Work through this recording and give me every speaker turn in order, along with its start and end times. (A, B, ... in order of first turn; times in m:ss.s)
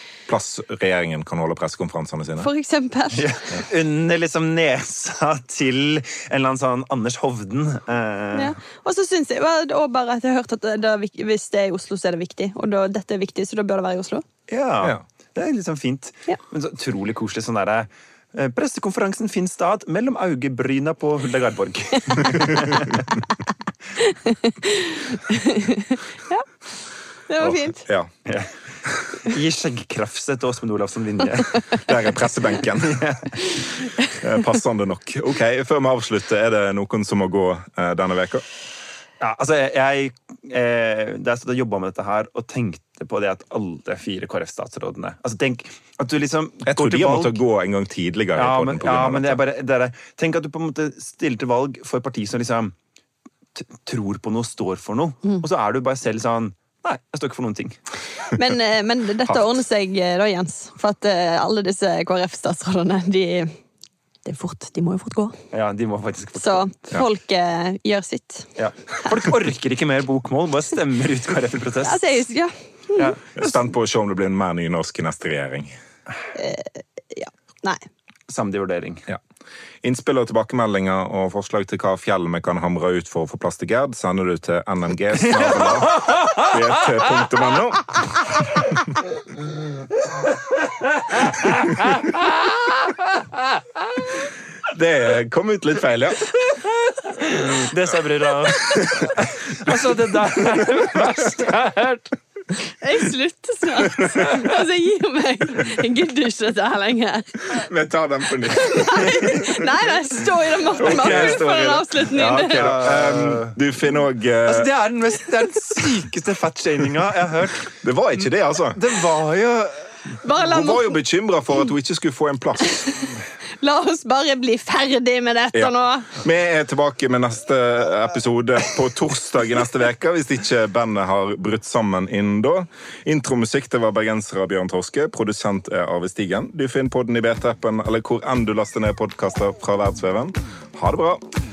0:00.3-0:02.5 A
0:02.4-0:03.4 B
0:03.1-0:08.5 C
0:08.3-0:14.2 B
0:14.5-0:23.1 C
0:24.0-0:26.5 B
0:27.3-0:27.8 B
0:27.4-0:28.1 A
0:28.2-0:31.8 C
0:28.9-0:29.2 A
0:31.8-0:33.4 A
0:32.8-0:33.4 C
0:33.8-0:34.1 B
0:34.0-0:38.4 A
0:39.2-0:47.4 C
0:46.6-0:49.4 A
0:48.3-0:52.7 C
0:53.5-0:57.8 C
0:58.2-1:03.5 B
1:04.2-1:05.4 B
1:05.5-1:06.7 C
1:06.4-1:08.5 B
1:08.6-1:12.1 C
1:11.8-1:13.1 B
1:13.0-1:13.7 C
1:13.4-1:15.7 A
1:16.3-1:17.8 B
1:18.3-1:19.0 C
1:19.8-1:29.0 A
1:25.9-1:26.2 C
1:34.6-1:36.6 A
1:37.2-1:42.1 C
1:38.6-1:41.1 A
1:42.8-1:47.6 B
1:43.8-1:44.3 A
1:47.5-1:49.5 A
1:48.5-1:52.8 B
1:50.8-1:54.7 A
1:50.8-1:51.5 C
1:52.5-1:53.6 C
1:54.4-1:57.8 C
1:57.8-1:58.8 A
1:58.7-2:00.2 C
2:00.2-2:00.9 B
2:00.4-2:03.1 A
2:03.6-2:06.1 B
2:05.5-2:21.2 A